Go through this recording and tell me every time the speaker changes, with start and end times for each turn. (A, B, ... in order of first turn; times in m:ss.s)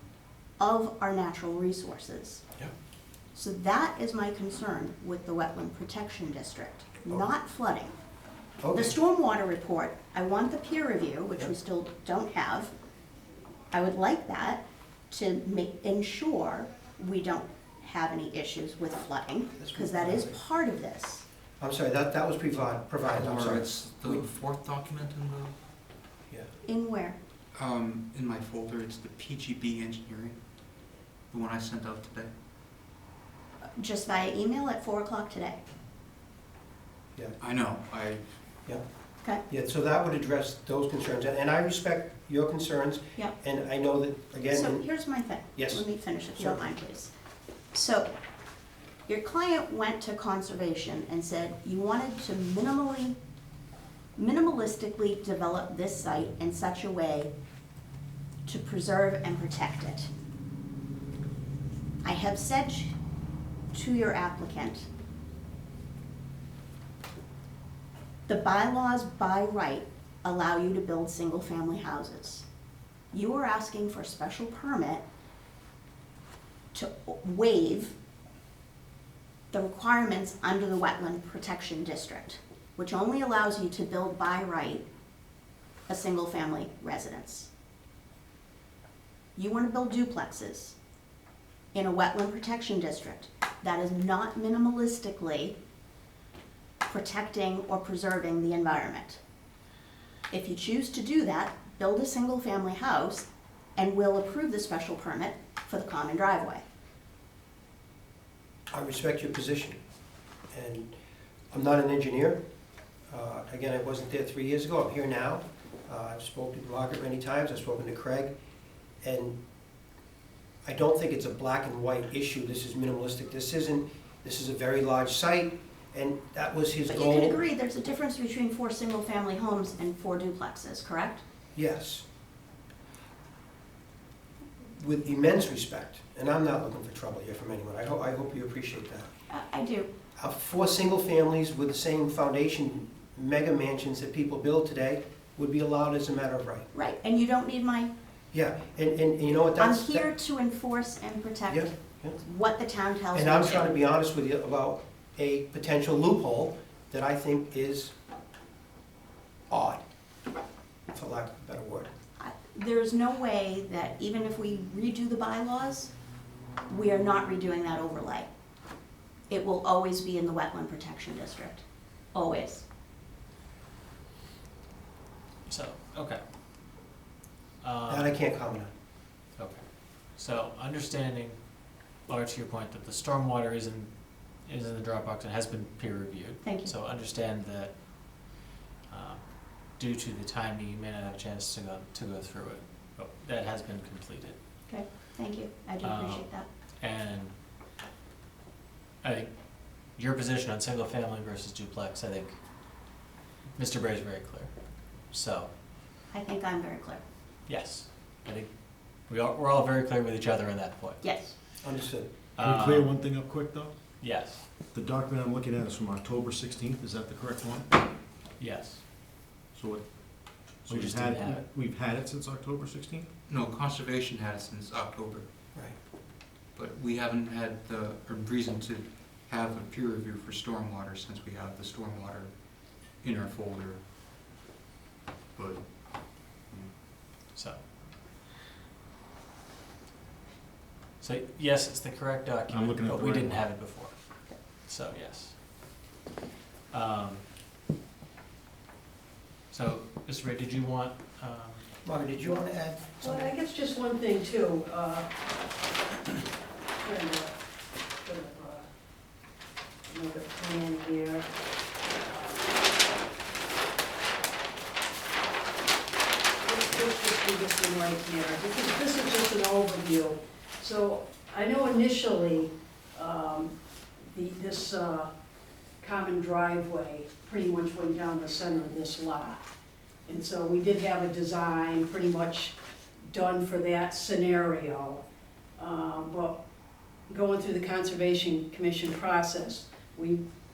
0:00.6-0:02.4 A
0:03.3-0:08.0 A
0:08.6-0:08.9 B
0:08.7-0:12.7 A
0:13.7-0:21.2 A
0:19.6-0:20.3 B
0:21.6-0:24.2 B
0:23.1-0:25.6 C
0:26.6-0:27.2 A
0:27.5-0:30.4 C
0:31.3-0:32.3 C
0:33.8-0:35.6 A
0:37.4-0:38.3 C
0:39.5-0:44.8 B
0:44.5-0:47.1 A
0:45.6-0:45.8 B
0:46.4-0:46.6 B
0:47.7-0:48.1 A
0:49.1-0:53.2 A
0:54.2-0:57.3 A
0:58.4-1:00.1 A
1:02.0-1:02.9 A
1:03.7-1:04.9 A
1:08.3-1:12.4 A
1:13.1-1:15.0 A
1:16.7-1:18.0 A
1:19.5-1:24.8 A
1:25.9-1:27.5 A
1:29.4-1:30.8 A
1:31.7-1:35.6 A
1:36.8-1:39.2 A
1:40.3-1:46.6 A
1:48.7-1:49.8 B
1:50.5-1:50.9 B
1:51.5-1:52.4 B
1:53.1-1:58.3 B
1:59.0-1:59.4 B
2:00.6-2:07.4 B
2:06.9-2:11.2 A
2:11.5-2:12.0 B
2:14.7-2:19.1 B
2:19.3-2:19.9 A
2:20.2-2:26.7 B
2:26.7-2:27.9 A
2:28.3-2:30.1 B
2:29.6-2:33.7 A
2:31.5-2:32.2 B
2:33.1-2:37.9 B
2:39.5-2:39.8 B
2:40.9-2:41.9 B
2:42.2-2:45.9 A
2:46.7-2:48.3 A
2:49.3-2:52.6 A
2:55.5-2:56.2 D
2:57.6-2:58.1 D
2:57.9-2:58.7 B
2:59.4-3:01.4 D
3:02.1-3:03.9 D
3:04.4-3:07.7 D
3:06.4-3:06.7 A
3:08.9-3:09.2 D
3:09.7-3:14.4 D
3:14.7-3:16.5 A
3:15.8-3:16.2 D
3:16.8-3:17.3 D
3:19.0-3:19.3 D
3:19.9-3:22.4 D
3:23.6-3:24.5 D
3:25.1-3:25.5 D
3:26.1-3:27.0 A
3:27.5-3:28.5 D
3:29.1-3:31.0 D
3:31.0-3:31.3 A
3:31.6-3:32.1 B
3:32.4-3:32.9 D
3:32.4-3:33.7 E
3:34.0-3:34.5 D
3:34.7-3:37.8 E
3:38.4-3:38.8 D
3:39.5-3:43.1 E
3:40.6-3:41.4 D
3:43.3-3:45.3 C
3:46.5-3:53.8 C
3:55.3-3:56.7 C
3:57.3-3:57.6 D
4:01.0-4:05.4 D
4:02.5-4:03.4 E
4:06.7-4:07.2 D
4:09.5-4:11.7 D
4:11.8-4:13.3 B
4:13.0-4:15.1 F
4:16.8-4:17.3 F
4:18.0-4:18.6 F
4:19.9-4:21.3 F
4:21.9-4:22.4 F
4:26.4-4:33.5 F
4:34.1-4:35.1 F
4:35.8-4:39.4 F
4:40.0-4:42.6 F
4:43.1-4:45.0 F
4:45.6-4:46.4 F
4:47.1-4:50.2 F